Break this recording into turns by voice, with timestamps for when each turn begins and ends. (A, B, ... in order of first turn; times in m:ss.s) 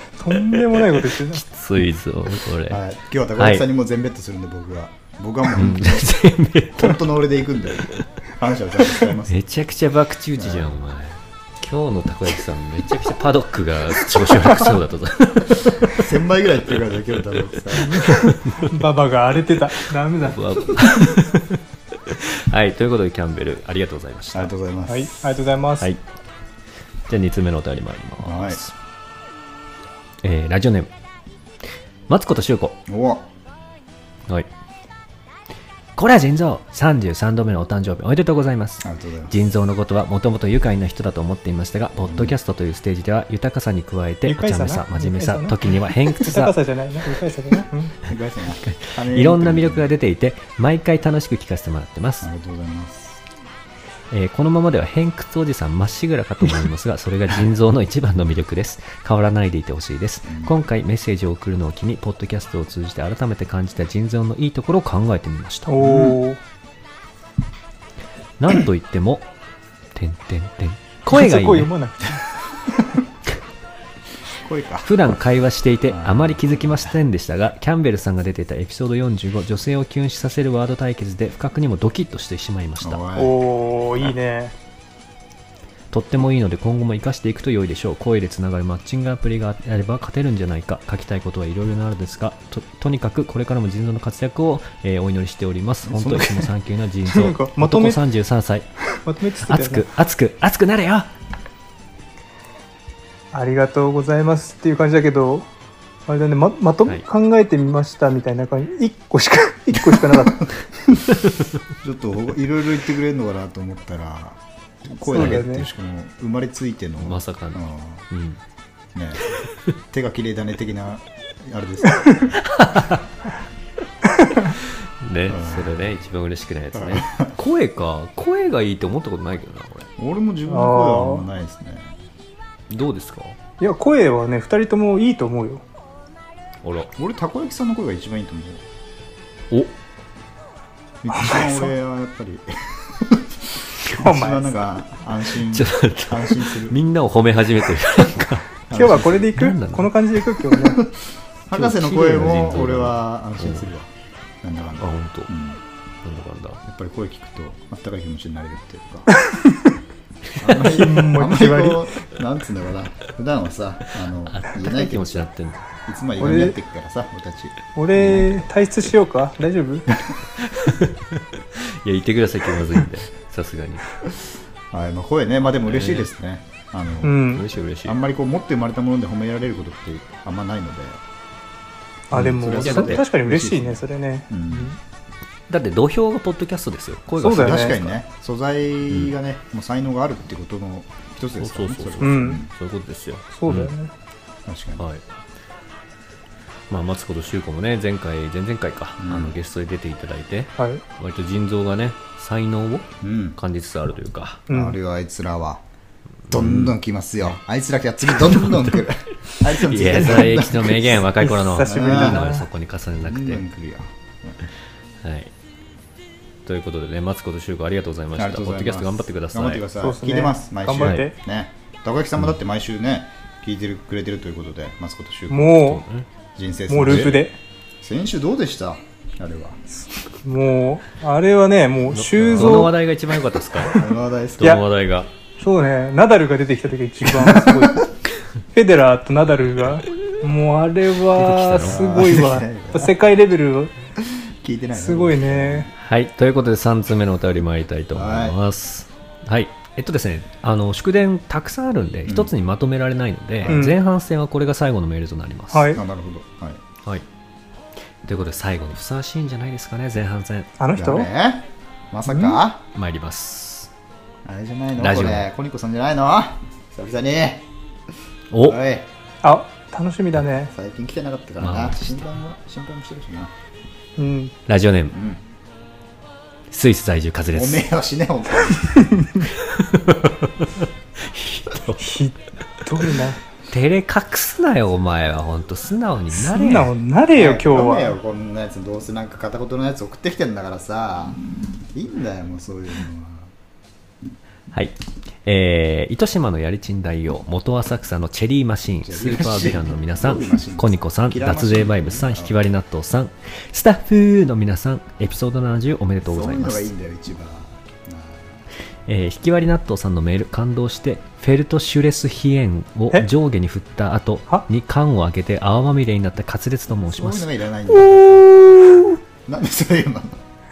0:00.2-0:01.4 A
0:00.5-0:02.8 B
0:02.7-0:06.1 C
0:03.4-0:03.6 B
0:05.5-0:07.0 B
0:06.7-0:09.4 C
0:09.2-0:16.1 B
0:10.4-0:10.7 C
0:15.8-0:18.0 C
0:17.5-0:18.8 B
0:17.8-0:20.8 A
0:20.2-0:24.5 B
0:24.3-0:25.1 C
0:24.9-0:25.9 A
0:27.1-0:28.7 B
0:28.2-0:28.6 C
0:30.2-0:30.9 B
0:32.1-0:32.8 B
0:32.9-0:33.3 C
0:36.0-0:46.5 B
0:38.8-0:39.3 C
0:42.0-0:42.4 C
0:44.2-0:48.0 A
0:48.0-0:49.9 C
0:48.5-0:52.3 B
0:52.2-0:53.2 C
0:54.1-1:05.7 B
1:00.2-1:00.5 C
1:05.7-1:06.4 A
1:05.8-1:06.2 C
1:08.4-1:09.3 B
1:09.9-1:11.7 B
1:11.1-1:12.3 A
1:14.3-1:14.9 C
1:14.8-1:23.0 B
1:15.9-1:17.0 C
1:22.8-1:23.4 C
1:23.2-1:24.5 A
1:25.9-1:38.6 B
1:35.8-1:36.5 C
1:37.1-1:38.0 A
1:39.0-1:39.8 A
1:39.4-1:41.1 B
1:43.3-1:45.5 A
1:46.1-1:51.0 A
1:51.2-1:51.4 B
1:51.8-1:58.0 C
1:55.0-1:55.7 A
1:57.0-1:58.4 B
1:58.9-1:59.2 C
1:59.9-2:02.3 C
2:02.3-2:03.0 B
2:04.5-2:09.9 B
2:05.3-2:05.8 C
2:06.7-2:07.3 C
2:10.0-2:11.9 C
2:10.5-2:11.2 A
2:12.7-2:13.4 B
2:13.6-2:15.6 A
2:16.6-2:16.9 B
2:17.0-2:18.6 C
2:21.0-2:26.8 C
2:21.1-2:21.7 A
2:23.9-2:24.5 A
2:25.5-2:29.9 B
2:28.7-2:29.2 C
2:28.7-2:30.8 A
2:30.6-2:30.9 C
2:31.5-2:33.9 C
2:31.5-2:33.7 B
2:34.4-2:35.6 C
2:34.8-2:35.3 B
2:36.0-2:36.6 B
2:36.6-2:39.1 C
2:39.2-2:39.7 A
2:40.4-2:45.3 C
2:40.5-2:41.9 A
2:44.3-2:45.6 B
2:45.8-2:48.4 C
2:46.2-2:46.6 A
2:47.7-2:49.9 A
2:50.4-2:53.8 B
2:54.7-2:57.2 C
2:55.6-2:56.1 B
2:57.0-2:57.4 A
2:57.3-2:58.0 B
2:57.8-3:01.0 C
3:02.1-3:04.7 A
3:02.1-3:03.0 B
3:02.1-3:04.7 C
3:05.5-3:07.9 B
3:07.2-3:07.8 A
3:07.4-3:12.5 C
3:11.4-3:13.7 B
3:12.0-3:12.4 A
3:13.4-3:13.9 A
3:14.4-3:14.8 C
3:14.8-3:15.0 B
3:16.7-3:24.4 B
3:19.0-3:19.3 C
3:23.0-3:23.4 C
3:24.5-3:24.8 A
3:24.5-3:25.6 C
3:26.3-3:27.3 B
3:26.3-3:31.1 C
3:28.2-3:28.8 B
3:29.4-3:33.4 B
3:31.2-3:32.5 A
3:31.6-3:32.2 C
3:33.0-3:34.4 C
3:35.0-3:35.3 B
3:36.4-3:39.6 B
3:38.2-3:45.6 C
3:39.8-3:41.1 A
3:40.8-3:41.1 B
3:45.3-3:45.8 A
3:45.6-3:46.1 B
3:46.4-3:47.2 C
3:46.7-3:47.4 A
3:46.8-3:47.2 B
3:47.8-3:49.6 C
3:50.2-3:52.7 A
3:51.9-3:53.8 B
3:52.1-3:52.7 C
3:53.6-3:54.6 C
3:54.4-3:55.1 B
3:55.4-3:57.9 A
3:57.1-3:57.8 C
3:58.5-4:03.7 A
4:01.1-4:02.1 B
4:01.6-4:02.9 C
4:04.0-4:05.7 C
4:04.7-4:05.7 A
4:05.8-4:15.8 B
4:07.9-4:08.4 C
4:12.1-4:12.3 C
4:13.5-4:13.8 A
4:15.5-4:15.8 A
4:15.7-4:16.6 C
4:18.0-4:20.5 B
4:20.6-4:21.1 A
4:20.7-4:22.6 C
4:22.1-4:22.4 A
4:22.7-4:23.7 B
4:24.2-4:27.5 C
4:24.8-4:25.3 B
4:28.3-4:28.6 B
4:28.4-4:28.9 C
4:29.2-4:30.5 A
4:30.5-4:33.3 C
4:31.4-4:32.0 B
4:34.0-4:34.3 A
4:34.5-4:35.0 B
4:34.9-4:35.2 C
4:36.5-4:37.6 B
4:37.3-4:38.8 C
4:38.8-4:39.2 A
4:39.4-4:41.9 B
4:41.8-4:43.2 A
4:43.5-4:46.7 B
4:46.1-4:48.0 A
4:47.1-4:51.2 C
4:51.7-4:53.3 C
4:54.5-5:06.7 B
4:58.8-5:02.4 C
5:06.0-5:08.4 C
5:08.8-5:17.3 B
5:16.8-5:18.6 C
5:19.2-5:20.2 C